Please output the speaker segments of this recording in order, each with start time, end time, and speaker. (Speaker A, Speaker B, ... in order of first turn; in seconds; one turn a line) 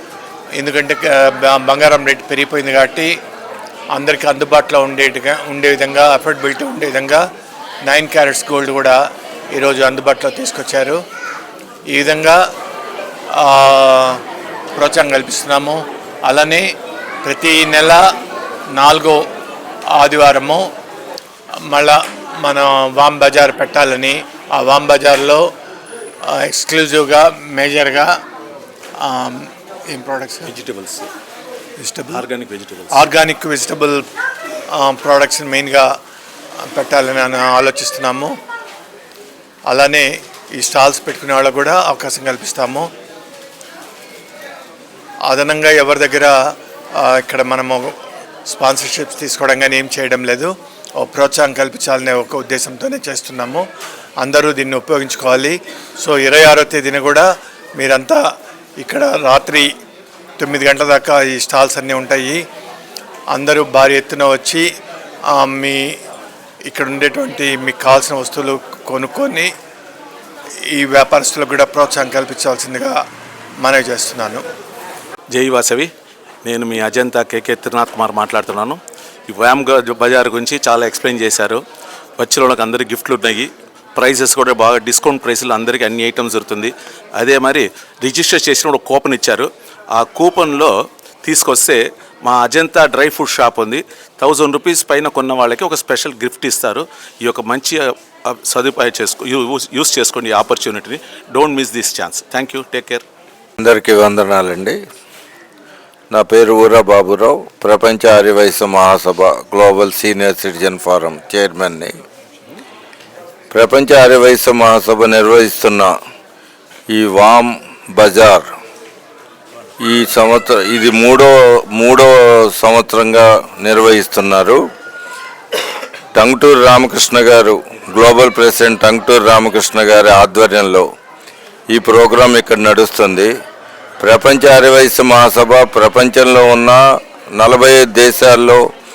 Speaker A: 0.6-3.1
Speaker A: 3.9-7.3
Speaker A: 7.8-9.0
Speaker A: 9.5-11.0
Speaker A: 11.9-12.4
Speaker A: 13.3-14.2
Speaker A: 14.8-16.7
Speaker A: 17.2-18.0
Speaker A: 18.7-19.2
Speaker A: 19.9-20.7
Speaker A: 21.7-25.5
Speaker A: 26.2-28.1
Speaker A: 29.0-30.5
Speaker B: 30.5-31.1
Speaker A: 31.8-32.2
Speaker B: 32.1-33.1
Speaker A: 32.9-34.0
Speaker A: 34.7-35.9
Speaker A: 36.7-38.4
Speaker A: 39.7-42.9
Speaker A: 45.3-46.3
Speaker A: 47.0-48.0
Speaker A: 48.5-53.6
Speaker A: 54.2-58.2
Speaker A: 58.8-59.7
Speaker A: 60.4-62.4
Speaker A: 63.3-64.7
Speaker A: 65.3-65.9
Speaker A: 66.7-69.5
Speaker A: 70.7-73.0
Speaker A: 73.6-74.4
Speaker B: 75.3-75.9
Speaker B: 76.4-81.6
Speaker B: 82.2-103.0
Speaker C: 103.6-104.8
Speaker C: 106.1-111.9
Speaker C: 113.5-115.9
Speaker C: 116.9-118.5
Speaker C: 119.8-124.6
Speaker C: 126.2-130.9
Speaker C: 131.7-133.3
Speaker C: 134.0-136.8
Speaker C: 137.4-138.6